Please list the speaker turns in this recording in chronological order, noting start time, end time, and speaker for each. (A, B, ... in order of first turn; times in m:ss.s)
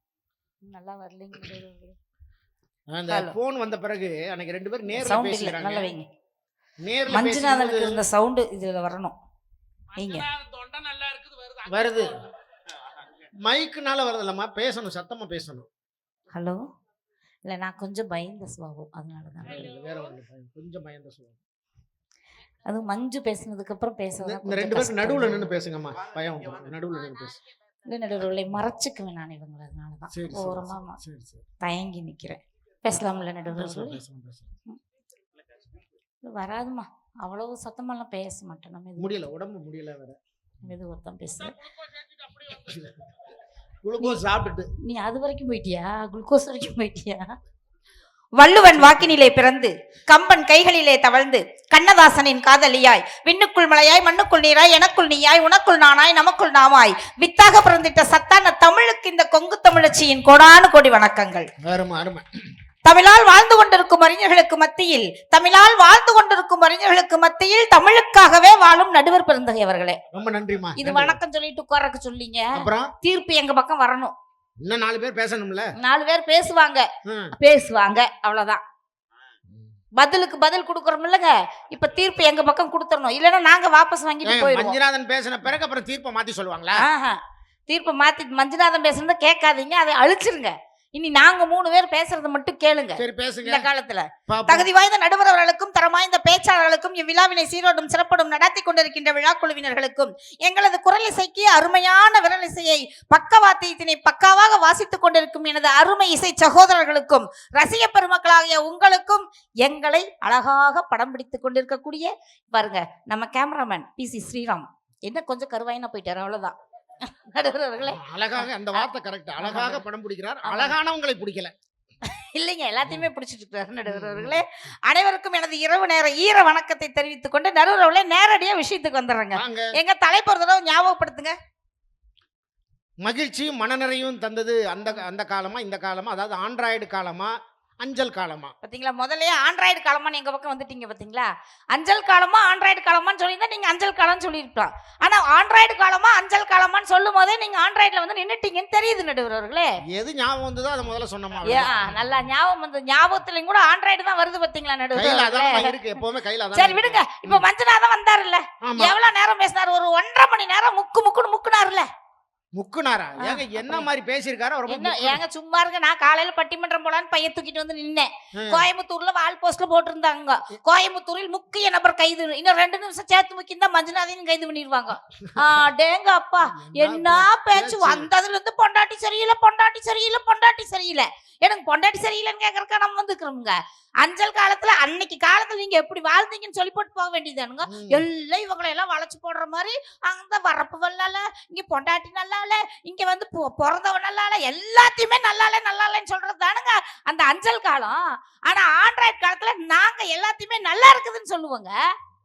0:00.7-0:02.0 A
0:02.9-0:05.9 B
0:03.1-0:03.4 A
0:04.9-0:06.1 A
0:06.8-0:08.0 B
0:07.1-0:09.2 A
0:10.0-0:10.3 A
0:10.0-0:12.1 C
0:11.7-0:12.2 B
0:13.4-0:15.7 B
0:16.3-0:16.6 A
0:17.4-0:19.7 A
0:19.4-0:21.4 B
0:19.5-0:19.9 C
0:22.7-0:25.4 A
0:24.2-0:27.4 B
0:27.9-0:31.0 A
0:30.1-0:31.4 B
0:31.6-0:34.0 A
0:33.5-0:34.5 B
0:36.2-0:39.2 A
0:39.0-0:40.2 B
0:40.6-0:41.6 A
0:41.7-0:42.7 C
0:42.7-0:43.0 B
0:43.8-0:44.7 B
0:44.8-0:47.3 A
0:48.4-1:01.5 A
0:48.7-0:49.1 B
1:01.6-1:02.2 B
1:02.8-1:10.0 A
1:10.1-1:11.2 B
1:10.8-1:14.1 A
1:12.6-1:12.9 B
1:14.6-1:15.7 B
1:15.8-1:18.6 A
1:17.0-1:17.3 B
1:20.0-1:24.8 A
1:24.2-1:26.8 B
1:26.8-1:58.9 A
1:33.0-1:33.7 B
1:34.3-1:34.7 B
1:57.8-2:01.5 B
1:59.4-1:59.8 A
2:00.4-2:00.8 A
2:02.1-2:11.3 A
2:03.8-2:04.4 B
2:09.4-2:09.7 B
2:13.0-2:18.5 B
2:18.6-2:29.7 A
2:29.9-2:31.8 B
2:31.4-2:35.8 A
2:34.9-2:37.4 B
2:36.5-2:41.9 A
2:38.6-2:38.9 B
2:42.5-2:45.2 B
2:43.2-2:43.9 A
2:44.7-3:21.8 A
2:48.3-2:48.6 B
2:55.2-2:55.5 B
2:56.5-2:58.1 B
3:07.7-3:08.0 B